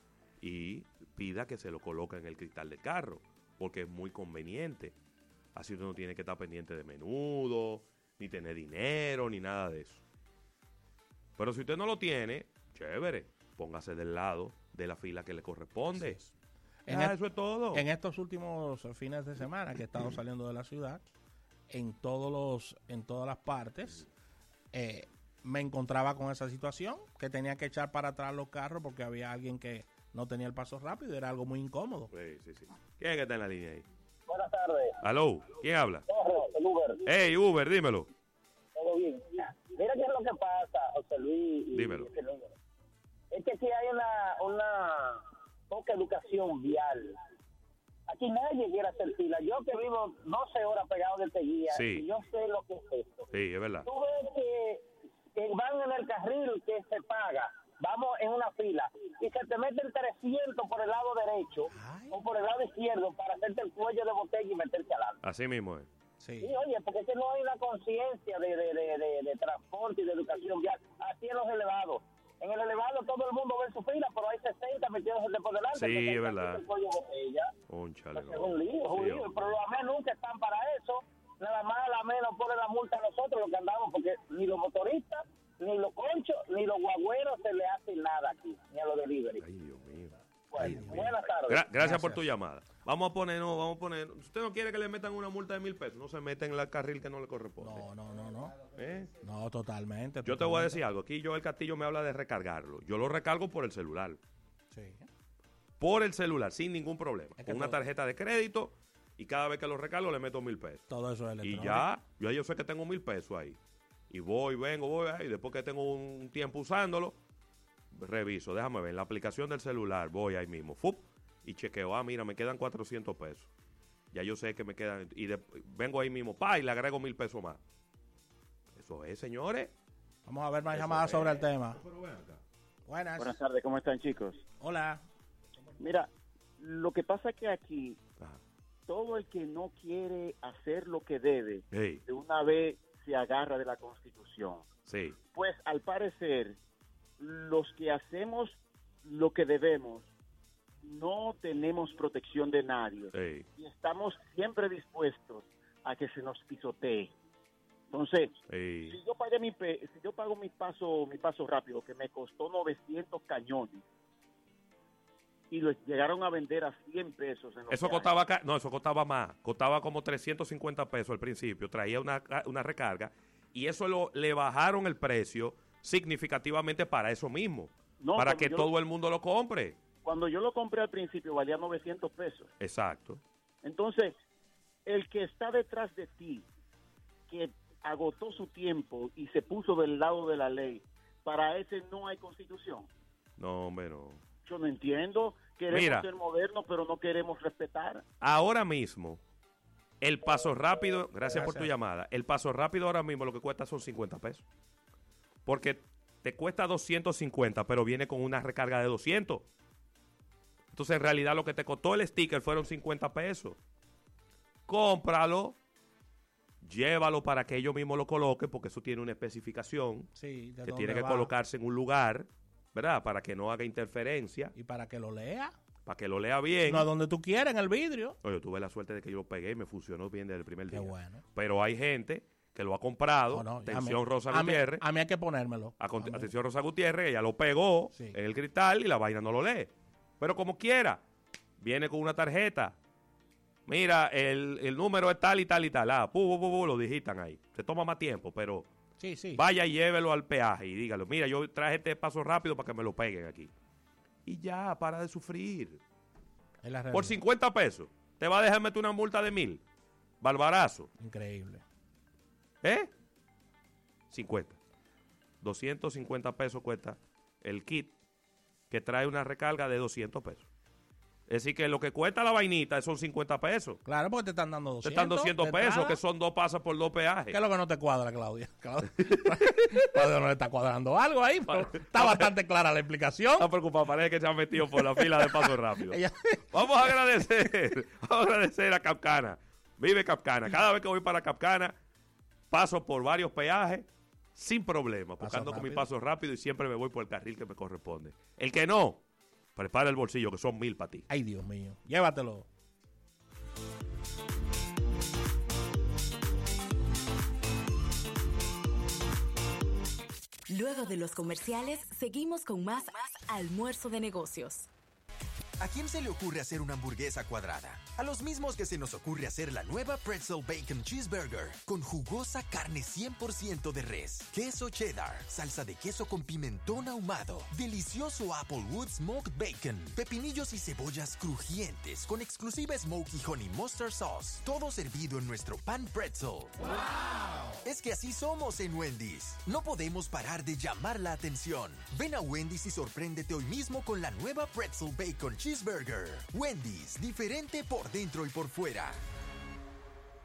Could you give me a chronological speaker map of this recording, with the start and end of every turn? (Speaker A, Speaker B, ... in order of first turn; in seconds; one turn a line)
Speaker A: 0.4-5.0
Speaker A: 5.5-10.0
Speaker A: 11.4-16.2
Speaker B: 15.9-16.3
Speaker B: 16.8-17.2
Speaker A: 16.9-17.8
Speaker B: 17.7-21.0
Speaker B: 21.7-24.1
Speaker B: 24.7-32.1
Speaker A: 32.1-33.9
Speaker C: 34.3-35.0
Speaker A: 35.0-36.0
Speaker C: 36.1-37.0
Speaker A: 37.0-38.1
Speaker C: 38.7-42.5
Speaker A: 41.7-42.1
Speaker C: 43.3-47.2
Speaker C: 48.1-53.3
Speaker A: 51.7-52.0
Speaker A: 53.3-53.9
Speaker C: 53.8-54.8
Speaker C: 55.4-65.2
Speaker B: 61.7-62.2
Speaker A: 65.2-65.9
Speaker B: 66.2-66.5
Speaker C: 66.4-77.5
Speaker A: 75.7-76.6
Speaker A: 77.7-79.5
Speaker C: 78.1-89.4
Speaker A: 89.4-97.9
Speaker C: 90.5-91.6
Speaker B: 90.5-91.1
Speaker B: 91.7-92.3
Speaker B: 97.6-98.6
Speaker A: 98.7-99.1
Speaker B: 99.2-100.8
Speaker A: 100.2-104.2
Speaker B: 104.7-105.1
Speaker A: 105.8-110.8
Speaker B: 107.4-107.8
Speaker B: 110.9-111.9
Speaker A: 111.4-113.6
Speaker A: 114.1-117.2
Speaker A: 117.9-123.5
Speaker A: 124.1-127.6
Speaker A: 128.7-129.7
Speaker B: 130.2-131.8
Speaker A: 130.7-132.4
Speaker B: 132.9-133.4
Speaker D: 133.2-134.4
Speaker B: 134.6-135.0
Speaker D: 135.8-138.0
Speaker D: 138.9-144.7
Speaker A: 141.7-142.0
Speaker A: 144.9-145.2
Speaker D: 145.3-146.6
Speaker D: 147.2-150.1
Speaker D: 150.8-157.1
Speaker A: 153.1-153.4
Speaker D: 157.9-158.3
Speaker A: 158.5-159.0
Speaker D: 158.9-163.8
Speaker D: 165.5-168.1
Speaker A: 167.7-179.8
Speaker D: 178.0-178.7
Speaker D: 180.0-182.5
Speaker A: 182.6-183.2
Speaker D: 183.6-184.1
Speaker D: 184.8-186.5
Speaker D: 187.3-192.9
Speaker A: 193.4-194.2
Speaker D: 194.4-198.0
Speaker A: 195.7-196.1
Speaker A: 198.2-199.2
Speaker A: 200.0-204.4
Speaker B: 201.3-201.7
Speaker A: 205.4-209.5
Speaker A: 210.7-213.6
Speaker A: 214.7-215.6
Speaker A: 216.6-220.1
Speaker B: 220.1-221.3
Speaker A: 220.6-224.5
Speaker B: 224.5-225.6
Speaker A: 225.8-226.9
Speaker B: 226.7-228.2
Speaker A: 228.2-234.8
Speaker B: 230.7-231.2
Speaker B: 233.3-236.3
Speaker A: 235.8-241.0
Speaker A: 241.6-242.8
Speaker A: 243.7-248.7
Speaker B: 249.0-249.4
Speaker A: 249.3-253.5
Speaker A: 254.2-255.8
Speaker B: 256.6-257.2
Speaker A: 256.9-259.6
Speaker A: 260.2-260.9
Speaker B: 261.0-261.6
Speaker A: 262.6-262.9
Speaker A: 264.1-264.6
Speaker A: 265.4-267.9
Speaker A: 268.7-270.5
Speaker A: 271.3-273.8
Speaker B: 273.8-276.0
Speaker A: 274.8-277.4
Speaker B: 277.3-283.5
Speaker A: 281.5-282.3
Speaker A: 283.4-286.0
Speaker B: 284.7-286.4
Speaker A: 286.5-291.8
Speaker A: 292.5-299.0
Speaker B: 295.2-295.9
Speaker A: 299.6-301.1
Speaker B: 301.1-302.5
Speaker E: 310.5-314.7
Speaker F: 315.6-336.5
Speaker F: 337.6-349.0